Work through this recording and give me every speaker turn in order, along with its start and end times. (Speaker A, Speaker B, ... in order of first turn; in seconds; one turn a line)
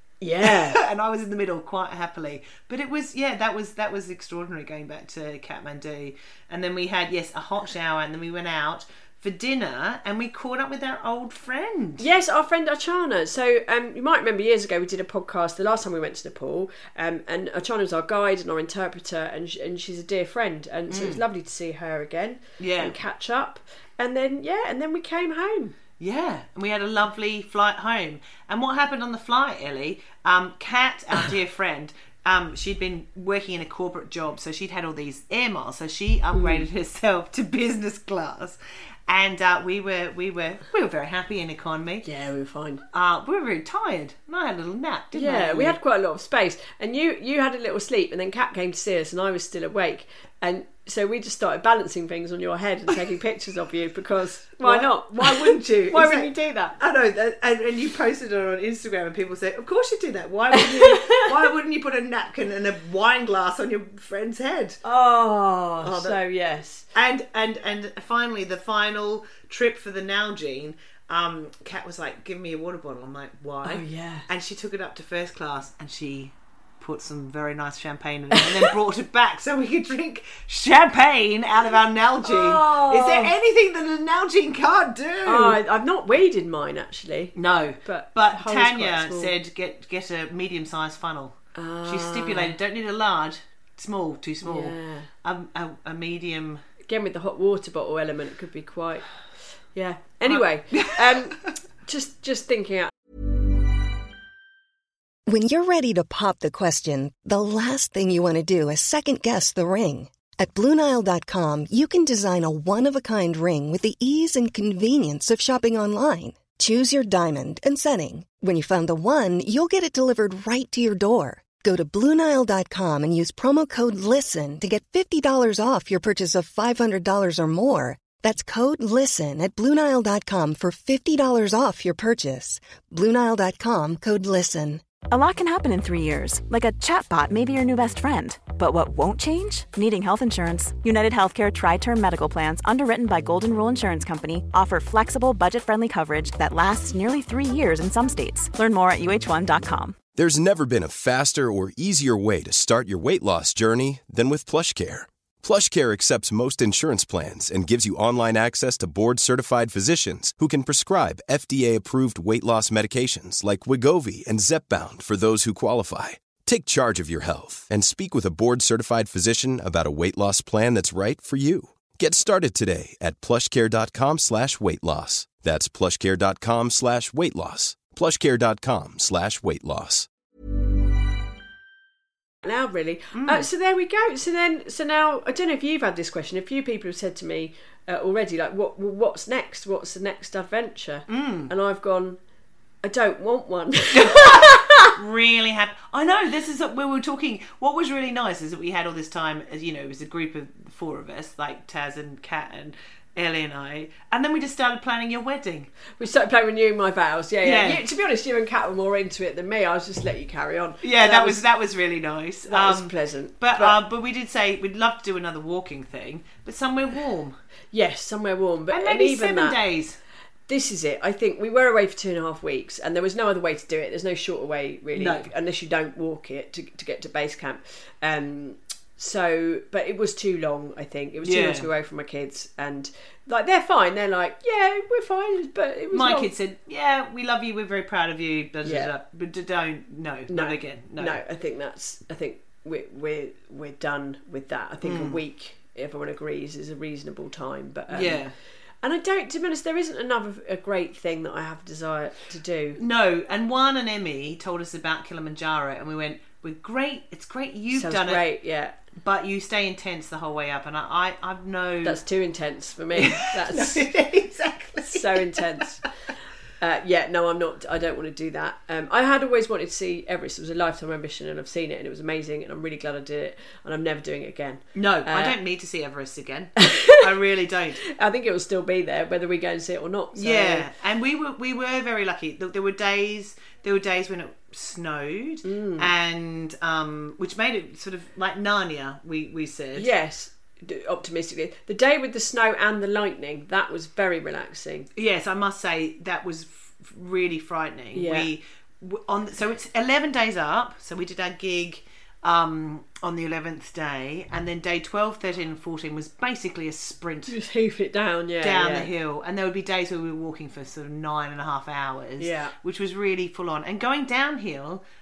Speaker A: 0.2-0.8
Speaker B: 0.4-12.1
Speaker A: 12.0-25.8
Speaker B: 20.9-21.2
Speaker B: 22.6-22.9
Speaker B: 26.0-38.6
Speaker A: 36.3-36.6
Speaker B: 39.1-42.1
Speaker A: 42.0-42.8
Speaker B: 42.9-45.8
Speaker A: 45.1-56.8
Speaker B: 54.6-64.8
Speaker A: 60.5-61.3
Speaker A: 64.8-66.8
Speaker B: 65.8-66.2
Speaker B: 66.9-85.6
Speaker A: 73.6-74.2
Speaker A: 78.3-78.7
Speaker A: 82.2-83.3
Speaker A: 85.2-89.3
Speaker B: 87.3-96.6
Speaker A: 91.5-92.5
Speaker A: 94.4-95.1
Speaker A: 96.9-99.1
Speaker A: 99.7-102.9
Speaker B: 100.2-101.2
Speaker C: 105.3-134.8
Speaker D: 135.1-150.0
Speaker E: 150.2-180.1
Speaker A: 182.4-192.2
Speaker B: 183.1-183.5
Speaker B: 191.1-191.5
Speaker A: 192.8-194.9
Speaker B: 193.9-205.7
Speaker A: 206.0-211.4
Speaker B: 207.4-207.8
Speaker B: 210.8-217.4
Speaker A: 212.5-213.8
Speaker A: 217.7-219.6
Speaker B: 218.7-220.0
Speaker A: 220.5-236.3
Speaker B: 224.9-225.3
Speaker B: 231.2-231.7
Speaker B: 235.9-241.2
Speaker A: 238.6-238.9
Speaker A: 240.3-248.2
Speaker B: 244.8-245.2
Speaker B: 247.9-248.3
Speaker A: 248.8-252.8
Speaker B: 252.8-258.2
Speaker A: 257.7-258.7
Speaker B: 259.0-262.0
Speaker A: 261.8-263.9
Speaker B: 262.9-265.4
Speaker A: 264.9-265.8
Speaker A: 266.6-275.4
Speaker B: 274.8-277.8
Speaker A: 276.6-277.0
Speaker A: 277.9-280.6
Speaker B: 280.1-289.9
Speaker A: 285.4-285.9
Speaker A: 289.8-294.9
Speaker B: 294.9-307.3
Speaker A: 297.9-298.3
Speaker A: 307.3-308.9
Speaker B: 308.4-314.8
Speaker A: 312.2-312.5